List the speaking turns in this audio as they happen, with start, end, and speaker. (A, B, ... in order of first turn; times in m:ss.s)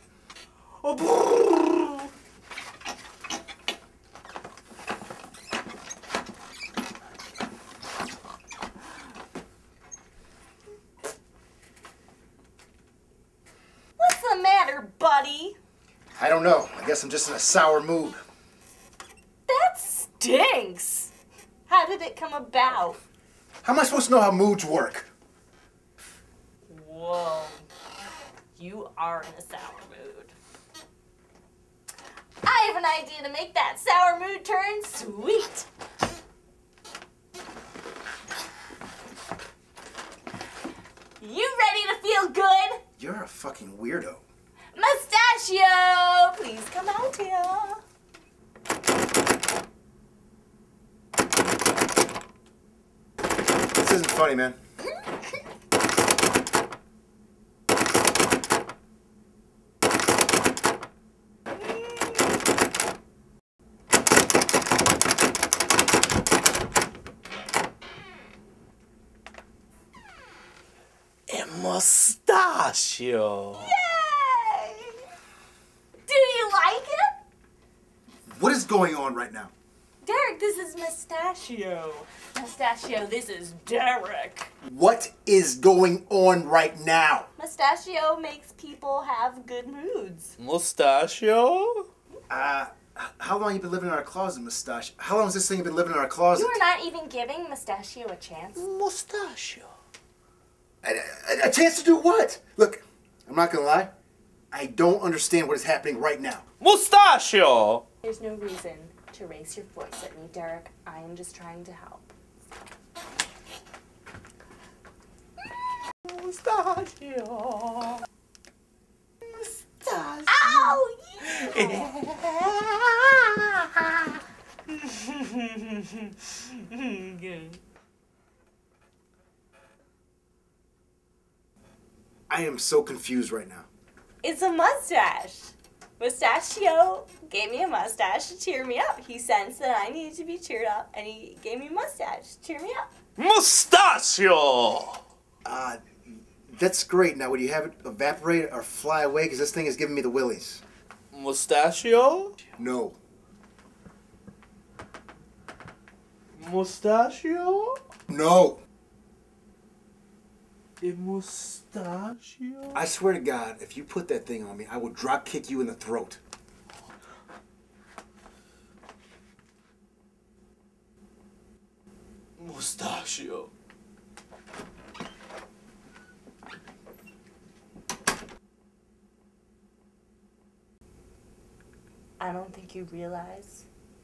0:00.8-0:01.9 A
0:01.4-0:01.7 B
0:14.0-0:15.6 A
0:16.2-0:18.2 C
0:19.5-0:21.1 A
0:21.7-0:23.0 A
0:23.6-0:25.1 C
0:26.7-0:27.6 A
0:28.6-0:30.3 A
0:32.4-0:35.7 A
0:41.2-0:42.8 A
0:43.0-0:44.2 C
0:44.7-0:47.8 A
0:53.8-0:54.6 C
0:54.8-0:55.4 A
1:11.3-1:13.7 B
1:13.6-1:15.0 A
1:16.1-1:17.1 A
1:18.3-1:19.5 C
1:20.0-1:24.5 A
1:24.6-1:27.3 C
1:27.4-1:30.4 A
1:30.4-1:31.9 B
1:32.3-1:36.6 C
1:36.4-1:38.7 A
1:38.6-1:39.7 B
1:40.8-1:43.9 C
1:44.5-1:46.4 C
1:46.6-1:47.8 B
1:48.0-1:52.1 A
1:56.1-1:58.0 B
1:59.2-2:04.2 B
2:00.3-2:01.9 A
2:04.7-2:07.6 A
2:12.3-2:13.7 C
2:14.2-2:22.9 A
2:23.2-2:25.0 B
2:25.4-2:30.6 C
2:31.1-2:32.4 B
2:32.6-2:33.0 C
2:36.4-2:37.8 B
2:38.1-2:38.6 C
2:40.8-2:42.8 B
2:42.7-2:46.2 C
2:52.4-2:53.5 B
3:02.2-3:03.7 A